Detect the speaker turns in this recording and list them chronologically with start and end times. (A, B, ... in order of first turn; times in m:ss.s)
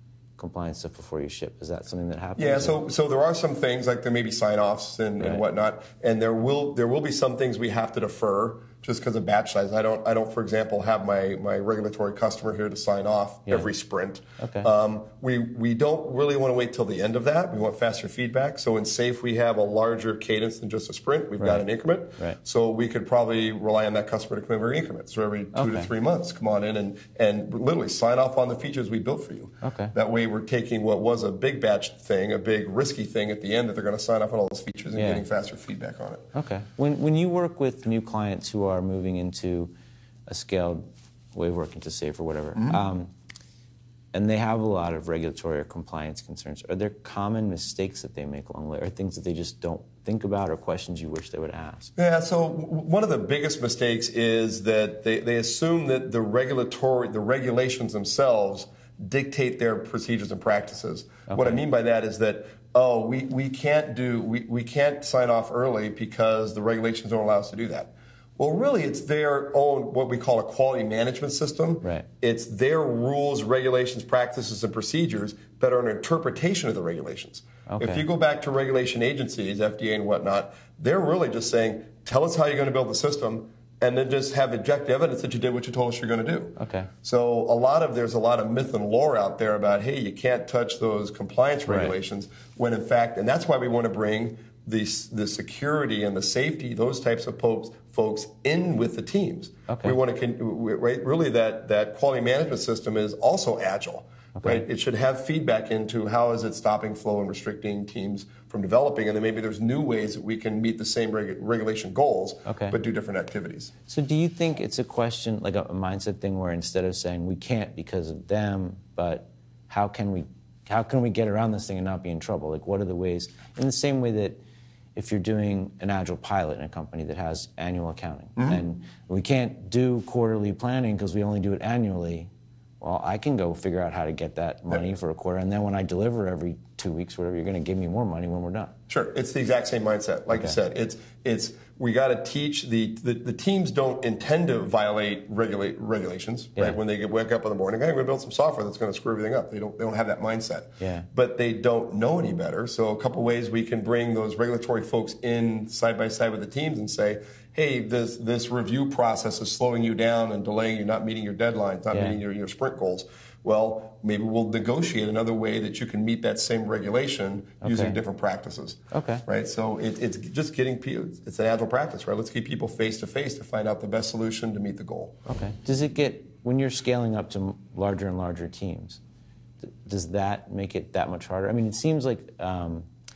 0:00.4-0:02.8 A
0:02.4-0:36.3 B
0:14.4-0:14.7 A
0:25.5-0:25.9 A
0:29.6-0:29.9 A
0:35.0-0:35.2 A
0:36.3-0:39.7 A
0:40.3-0:43.1 A
0:42.6-0:42.8 B
0:44.1-0:51.9 A
0:52.0-1:53.7 B
1:01.3-1:01.6 A
1:17.7-1:18.0 A
1:26.6-1:26.9 A
1:31.7-1:32.0 A
1:39.7-1:40.0 A
1:44.4-1:44.6 A
1:52.5-1:52.8 A
1:53.9-2:04.4 A
2:05.0-2:18.7 A
2:08.4-2:08.6 B
2:18.9-2:55.2 B
2:30.8-2:31.1 A
2:41.9-2:42.2 A
2:47.6-2:48.0 A
2:48.9-2:49.2 A
2:55.3-2:59.0 A
2:59.6-3:02.9 A